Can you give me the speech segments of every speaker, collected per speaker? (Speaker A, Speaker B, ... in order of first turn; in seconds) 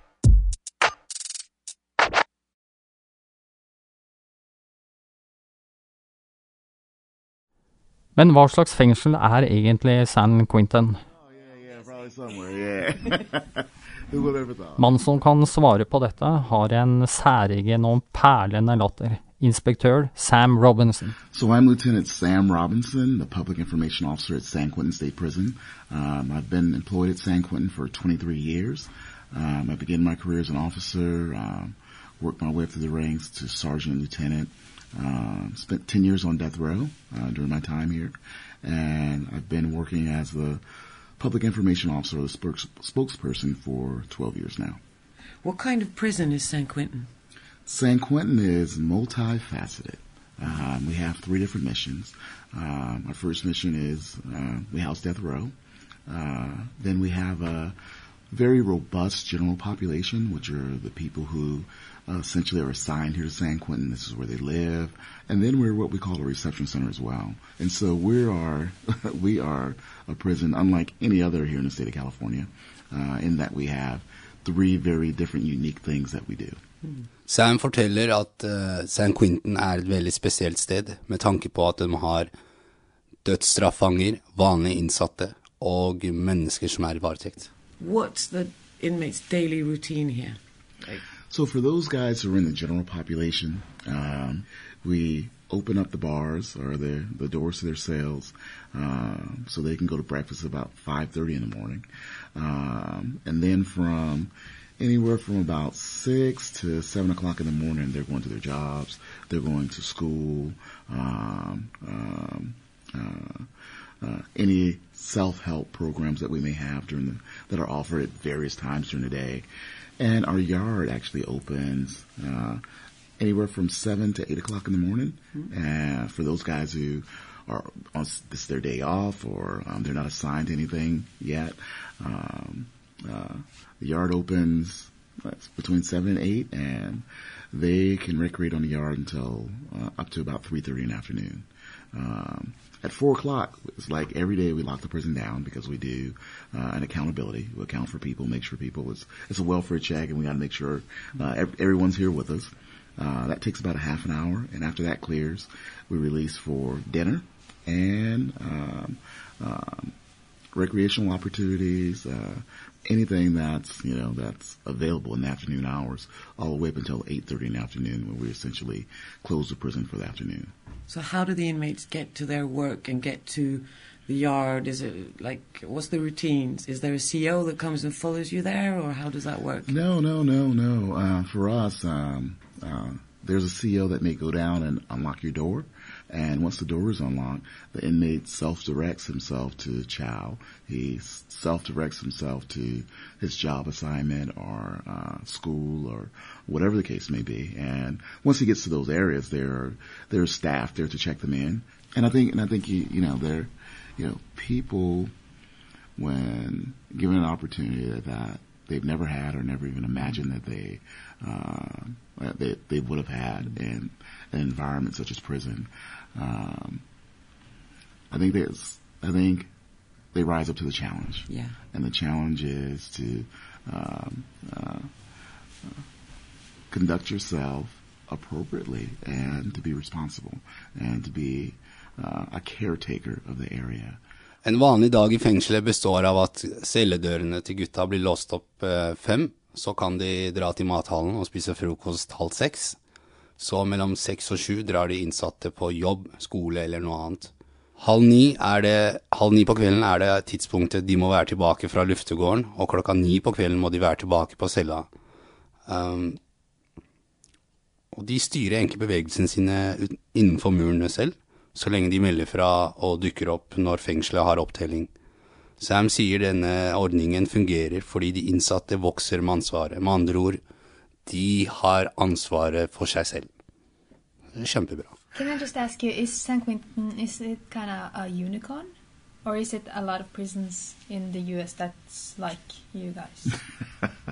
Speaker A: 8.2-11.0, 14.8-21.2
Speaker B: 11.2-14.9, 21.3-40.6, 41.2-44.8, 47.7-55.5, 56.1-57.8, 58.3-76.6, 91.3-101.8, 102.4-113.5, 114.0-119.5, 120.0-122.6, 123.2-159.9, 160.5-170.5, 179.7-205.1, 206.0-216.8, 218.1-219.5, 220.1-224.9, 226.7-234.0
Speaker C: 45.4-47.1, 87.8-91.0, 170.9-179.7, 221.3-221.6
Speaker D: 77.3-82.3, 83.2-87.5, 234.4-242.8, 243.4-254.9, 255.7-256.2, 257.9-264.9, 265.6-270.4, 271.1-273.3, 274.4-275.0
Speaker E: 275.1-278.7, 279.2-283.4